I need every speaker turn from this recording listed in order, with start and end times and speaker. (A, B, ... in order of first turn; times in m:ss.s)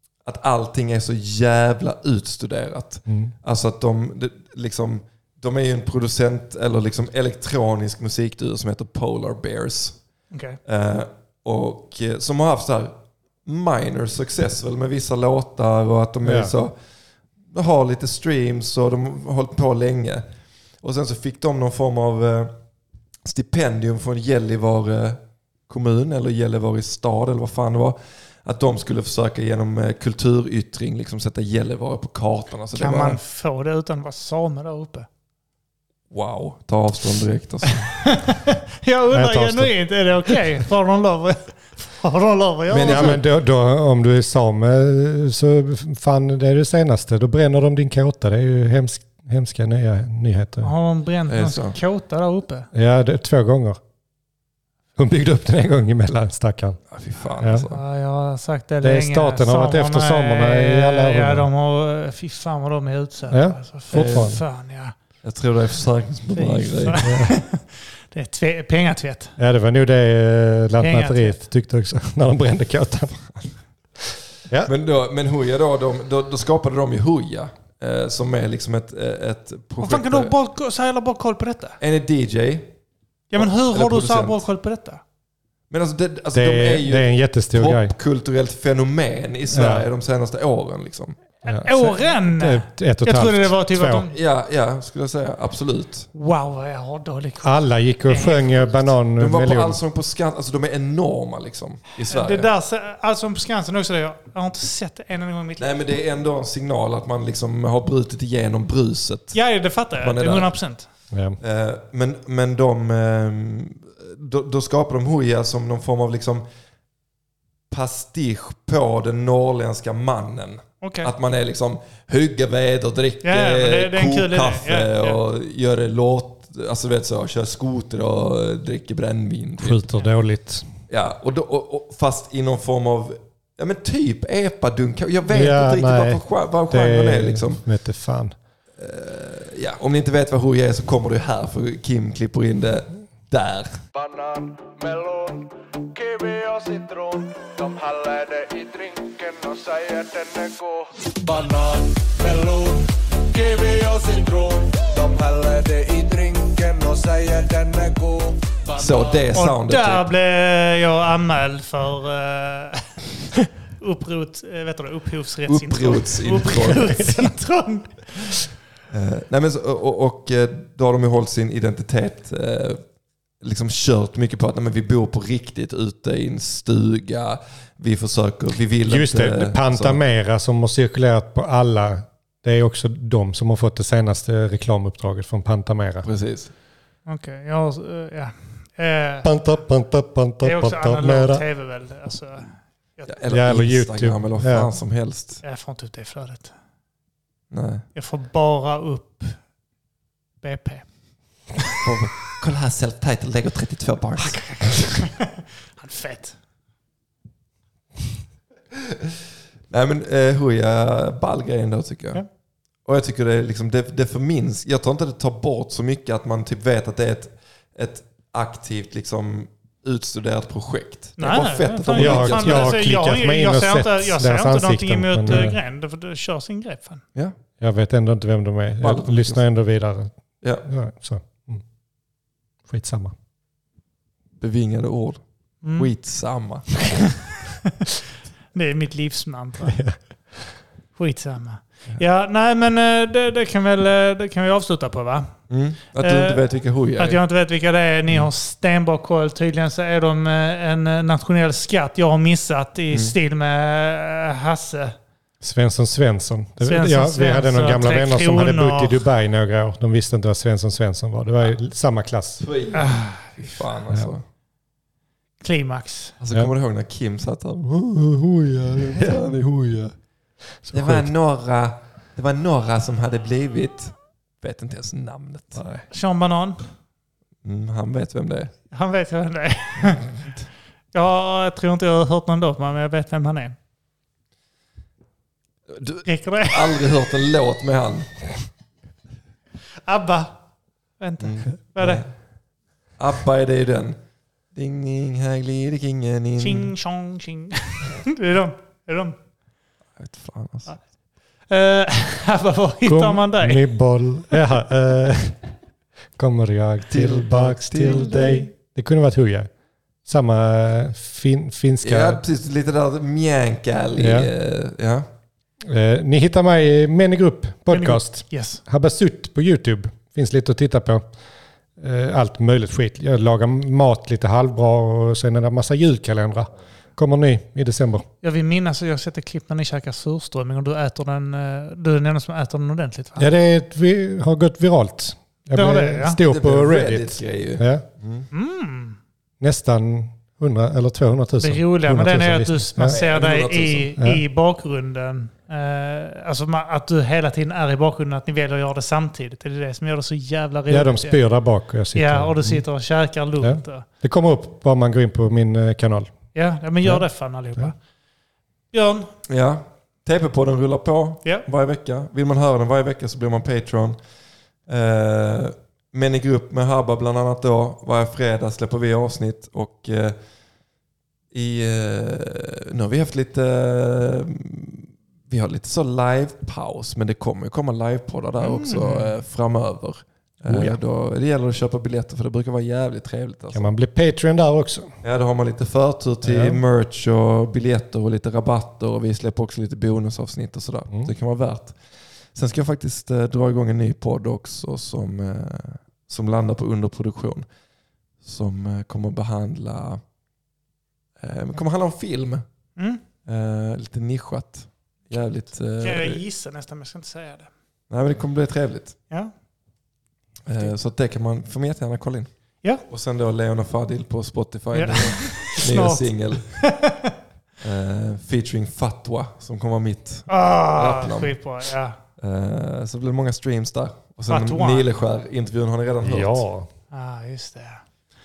0:00.2-0:10.0 A
0:03.1-0:03.3 B
0:10.3-0:10.6 C
0:10.6-0:16.7 A
0:16.2-0:16.5 B
0:17.5-0:20.2 A
0:20.8-0:22.5 A
0:23.2-0:33.2 A
0:32.8-0:35.1 C
0:36.1-0:38.0 A
0:38.0-0:43.2 C
0:39.1-0:39.7 B
0:42.7-0:43.2 A
0:42.8-0:50.7 B
0:50.6-0:52.7 C
0:51.3-0:51.8 A
0:52.7-0:53.8 B
0:55.0-0:56.8 B
0:56.9-0:57.8 A
0:57.4-0:57.7 B
0:57.7-1:04.9 C
0:58.8-1:01.5 B
1:03.3-1:04.4 B
1:03.9-1:04.4 A
1:05.2-1:07.1 A
1:06.3-1:09.3 C
1:07.0-1:07.3 B
1:09.4-1:13.2 B
1:10.8-1:11.4 C
1:14.6-1:20.3 A
1:19.8-1:21.8 C
1:21.8-1:22.7 A
1:23.3-1:25.0 C
1:23.3-1:24.4 A
1:25.7-1:31.2 A
1:26.3-1:27.9 B
1:29.5-1:29.8 B
1:31.4-1:34.0 B
1:31.5-1:34.1 C
1:34.1-1:36.1 A
1:36.1-1:38.9 C
1:37.4-1:39.8 B
1:39.2-1:42.5 A
1:42.1-1:45.7 C
1:45.6-1:49.4 A
1:49.3-1:50.9 C
1:50.0-1:50.5 A
1:51.1-1:51.4 B
1:51.4-1:56.4 A
1:57.7-2:09.8 A
2:00.8-2:01.1 C
2:03.2-2:05.2 C
2:09.6-2:10.7 B
2:10.9-2:17.6 A
2:15.3-2:18.4 B
2:18.8-2:23.8 A
2:23.9-2:39.2 D
2:38.8-2:40.0 A
2:39.3-2:48.4 C
2:45.5-2:47.2 A
2:48.9-2:52.8 A
2:53.4-3:00.0 A
2:58.8-3:06.0 B
3:06.0-3:06.5 A
3:07.0-3:09.3 C
3:09.2-3:11.4 B
3:10.4-3:13.2 C
3:13.1-3:15.4 A
3:13.3-3:14.7 B
3:15.4-3:16.5 C
3:17.5-3:17.8 A
3:17.9-3:19.4 C
3:20.4-3:20.8 C
3:21.8-3:25.0 A
3:24.2-3:26.4 C
3:29.7-3:32.2 A
3:32.8-3:42.8 A
3:41.2-3:47.0 C
3:41.9-3:45.6 B
3:47.6-3:50.1 B
3:48.8-3:49.4 A
3:50.6-3:51.6 B
3:52.7-3:53.1 B
3:54.4-3:56.8 A
3:55.6-3:55.9 C
3:58.5-3:59.8 C
3:59.7-4:00.6 B
4:01.0-4:05.4 C
4:05.5-4:07.2 A
4:06.0-4:06.4 C
4:07.0-4:15.0 C
4:15.4-4:22.4 B
4:16.6-4:19.0 C
4:22.4-4:24.2 A
4:22.7-4:23.6 C
4:25.4-4:26.2 C
4:26.2-4:29.9 A
4:30.6-4:31.1 B
4:30.7-4:35.6 A
4:35.6-4:35.8 B
4:35.9-4:36.6 C
4:37.4-4:38.5 A
4:38.7-4:40.3 C
4:40.9-4:43.6 C
4:45.7-4:48.3 A
4:46.0-4:46.9 C
4:49.8-4:50.4 C
4:51.0-4:52.0 C
4:51.2-4:52.1 A
4:53.0-4:54.0 A
4:54.5-4:56.7 A
4:56.4-4:59.2 C
5:00.0-5:00.8 A
5:01.5-5:03.7 C
5:02.8-5:05.5 B
5:06.2-5:09.5 B
5:06.9-5:08.4 A
5:10.0-5:12.2 B
5:11.8-5:15.1 A
5:14.0-5:14.3 B
5:15.6-5:21.0 B
5:17.7-5:18.6 C
5:21.8-5:28.0 B
5:28.2-5:33.3 C
5:33.2-5:37.8 B
5:35.5-5:36.2 C
5:36.2-5:38.3 A
5:38.3-5:39.0 C
5:39.4-5:43.0 B
5:41.4-5:51.2 C
5:42.8-5:43.9 A
5:50.7-5:52.6 B
5:51.9-5:53.8 C
5:53.4-5:56.1 B
5:56.3-5:57.8 C
5:58.7-5:59.1 C
5:59.3-6:04.0 A
6:04.7-6:10.2 A
6:11.3-6:23.7 A
6:18.4-6:19.1 C
6:20.5-6:20.8 B
6:23.5-6:24.9 B
6:25.0-6:31.8 A
6:26.2-6:26.6 B
6:32.3-6:37.4 A
6:38.2-6:40.0 A
6:41.2-6:42.4 A
6:42.8-6:43.0 C
6:43.2-6:46.2 A
6:45.8-6:47.5 C
6:47.9-6:49.0 A
6:50.4-6:52.3 A
6:52.8-6:56.6 A
6:54.7-6:57.1 C
6:57.6-7:01.3 A
7:00.3-7:02.0 C
7:02.2-7:06.4 A
7:04.3-7:04.8 C
7:06.0-7:06.7 B
7:06.9-7:07.8 C